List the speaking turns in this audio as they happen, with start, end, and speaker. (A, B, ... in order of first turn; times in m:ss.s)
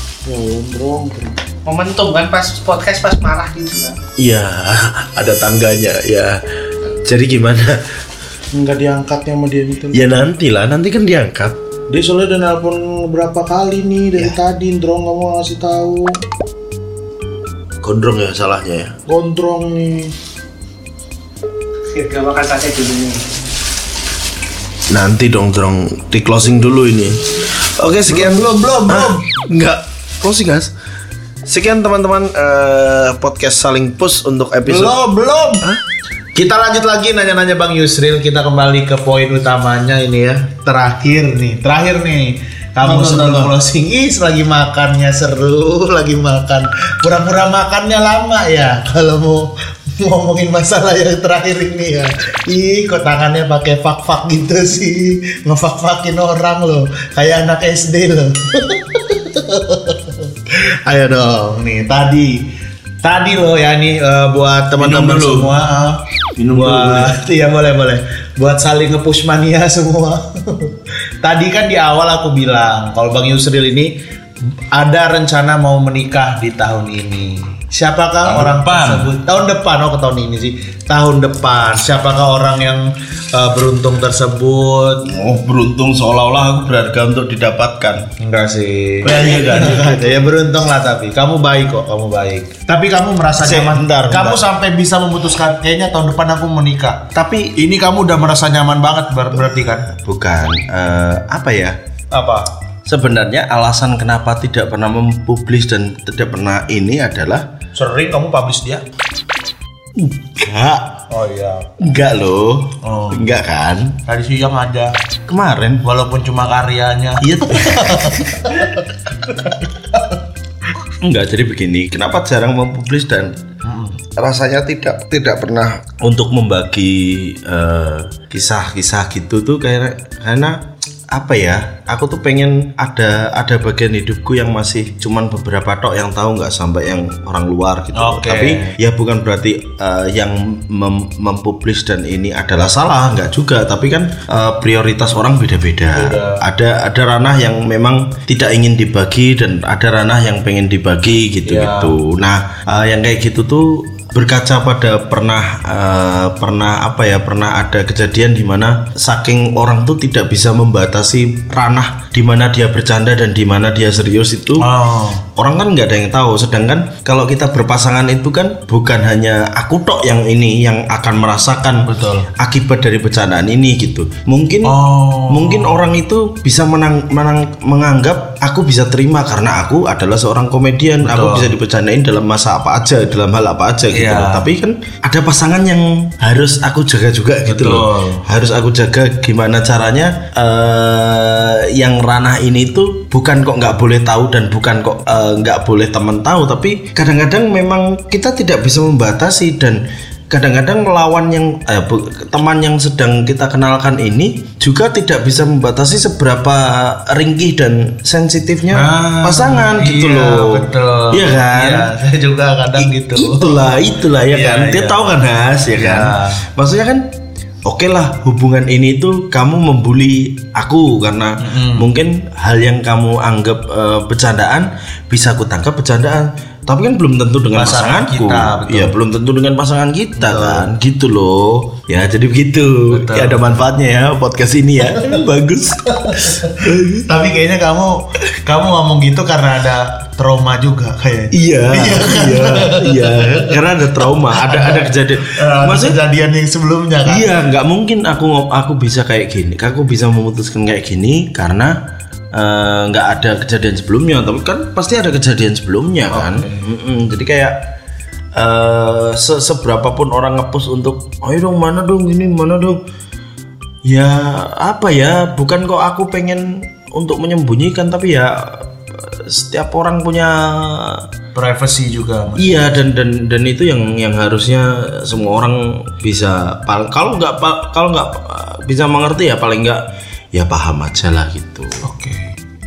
0:00.2-0:01.4 A
0:01.6-0:04.0 B
0:04.2-0:07.8 C
0:08.5-0:10.2 A
0:09.9-0:11.6 C
0:11.9-0:16.2 A
0:17.8-0:19.0 C
0:19.1-0:20.1 A
0:21.9-0:23.2 B
0:24.9-0:30.7 C
0:28.1-0:29.2 A
0:31.4-0:35.0 C
0:34.6-0:35.7 A
0:36.4-1:14.0 A
0:42.8-0:43.5 C
1:04.8-1:05.6 C
1:06.4-1:07.2 C
1:14.7-1:25.1 A
1:18.2-1:19.1 C
1:25.0-1:28.1 C
1:28.2-1:39.9 A
1:29.0-1:30.2 C
1:33.4-1:34.4 C
1:37.1-1:37.6 C
1:39.8-1:41.8 C
1:42.1-1:42.5 A
1:42.9-1:47.5 C
1:47.8-1:48.8 A
1:50.0-1:51.0 C
1:51.1-1:51.8 A
1:51.8-1:54.0 C
1:52.8-1:53.3 A
1:54.1-1:55.0 A
1:55.3-1:55.8 C
1:55.8-1:58.9 A
1:57.2-1:59.5 C
1:59.4-2:00.2 A
2:01.0-2:03.4 C
2:03.6-2:04.0 A
2:04.1-2:44.7 C
2:18.0-2:18.8 A
2:25.9-2:26.4 A
2:31.4-2:32.0 A
2:44.6-2:45.2 A
2:45.4-3:31.9 C
2:51.9-2:52.3 A
2:54.6-2:55.9 A
3:01.0-3:01.5 A
3:03.9-3:04.5 A
3:07.5-3:08.2 A
3:28.7-3:35.2 A
3:32.8-3:57.1 C
3:35.7-3:36.4 A
3:41.4-3:41.9 A
3:47.5-3:49.0 A
3:50.2-3:50.7 A
3:52.9-3:53.4 A
3:55.9-4:03.5 A
4:01.3-4:06.0 C
4:04.3-4:07.3 A
4:07.0-4:11.8 C
4:12.3-4:17.7 C
4:16.1-4:16.6 A
4:18.4-4:22.8 C
4:23.8-4:31.1 C
4:31.4-4:32.7 A
4:32.4-4:41.8 C
4:41.8-4:42.4 A